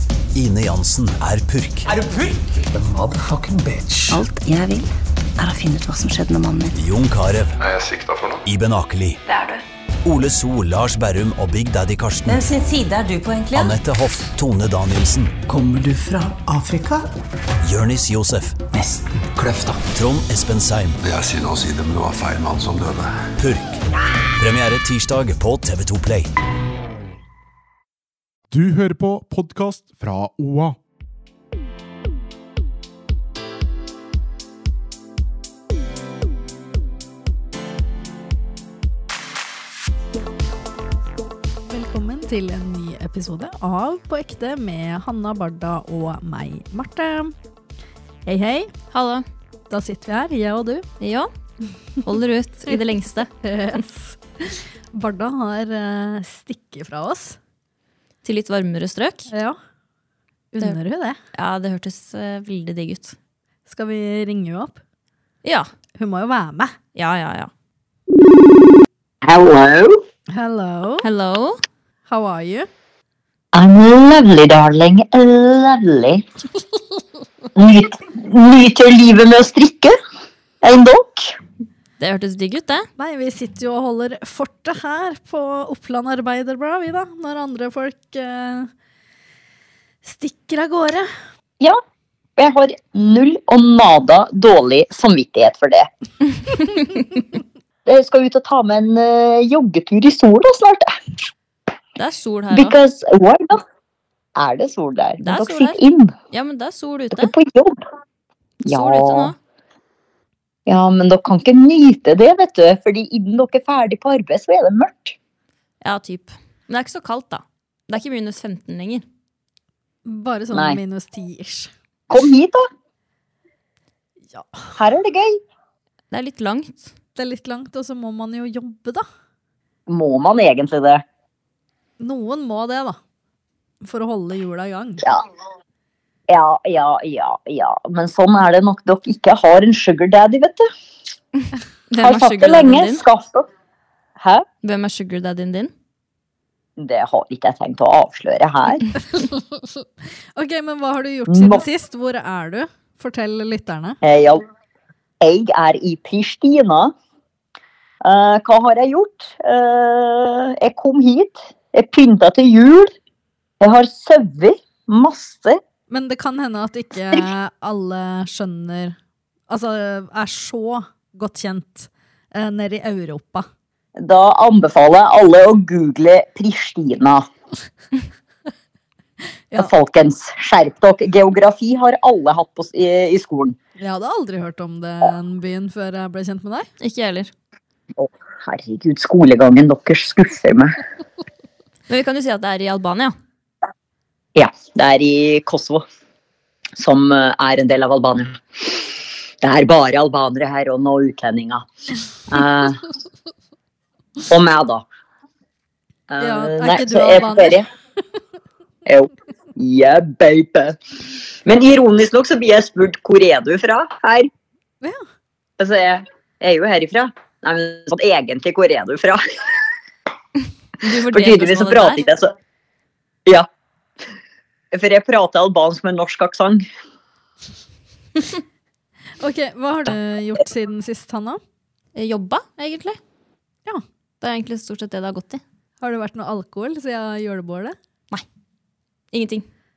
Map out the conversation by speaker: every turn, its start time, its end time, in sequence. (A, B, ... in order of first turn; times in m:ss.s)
0:00.3-0:01.9 A
0:02.7-0:04.2 B
0:04.1-0:06.7 C
0:06.7-0:07.6 A
0:07.6-0:08.4 D
0:08.4-0:09.2 A
0:09.2-0:09.6 E
0:10.0-0:12.5 A
0:12.2-0:13.8 E
0:13.5-0:15.3 A
0:15.5-0:17.1 B
0:17.6-0:18.6 A
0:18.7-0:19.8 B
0:19.9-0:21.0 A
0:21.0-0:23.2 D
0:23.4-0:23.8 A
0:24.4-0:26.3 A
0:28.5-0:30.8 F
0:41.6-0:47.4 G
0:48.2-0:48.7 G
0:48.9-0:49.2 H
0:49.7-0:50.9 G
0:51.0-0:51.3 H
0:52.0-0:53.3 H
0:53.4-0:57.4 G
0:58.2-0:59.3 H
0:59.3-0:59.6 G
1:00.5-1:01.2 G
1:01.3-1:03.2 H
1:03.7-1:04.8 G
1:05.4-1:05.7 H
1:06.0-1:06.8 G
1:06.9-1:07.5 H
1:09.2-1:10.0 I
1:10.3-1:11.0 G
1:11.0-1:11.6 H
1:12.1-1:12.7 G
1:13.5-1:16.2 I
1:17.5-1:20.0 I
1:20.6-1:21.4 I
1:22.0-1:22.9 H
1:23.0-1:28.7 G
1:30.0-1:31.1 G
1:32.4-1:35.9 I
1:37.8-1:41.0 I
1:42.0-1:42.8 H
1:42.5-1:43.6 I
1:44.4-1:46.1 I
1:45.2-1:45.8 H
1:46.3-1:47.3 H
1:47.1-1:47.8 I
1:48.6-1:49.3 I
1:48.7-1:49.4 H
1:50.7-1:55.2 I
1:55.8-1:59.0 H
2:00.0-2:01.7 G
2:00.5-2:00.8 I
2:02.1-2:02.6 I
2:04.3-2:04.7 G
2:04.8-2:05.4 I
2:06.1-2:06.9 H
2:07.2-2:09.0 G
2:09.9-2:11.0 I
2:12.0-2:13.0 G
2:13.8-2:15.0 G
2:16.3-2:20.7 I
2:21.9-2:23.0 H
2:22.0-2:23.5 I
2:24.2-2:24.4 I
2:24.6-2:25.7 H
2:26.8-2:28.9 I
2:29.0-2:34.0 G
2:31.3-2:31.6 I
2:34.0-2:34.4 I
2:35.2-2:36.9 I
2:38.0-2:42.9 I
2:43.6-2:45.6 I
2:45.9-2:49.0 G
2:49.5-2:53.5 G
2:54.0-2:57.3 I
2:59.6-3:03.6 I
3:03.8-3:06.7 G
3:06.8-3:07.3 H
3:08.0-3:10.8 I
3:11.9-3:13.1 H
3:14.3-3:15.8 I
3:16.8-3:18.9 I
3:19.4-3:21.7 I
3:22.3-3:22.9 I
3:24.2-3:24.8 I
3:26.1-3:27.6 I
3:26.2-3:27.6 G
3:28.8-3:30.8 I
3:31.4-3:34.3 I
3:35.6-3:39.6 I
3:40.8-3:42.0 H
3:41.1-3:42.3 I
3:44.7-3:46.6 I
3:49.2-3:51.4 G
3:52.0-3:53.0 H
3:54.2-3:55.4 H
3:55.8-3:57.8 G
3:59.1-3:59.4 H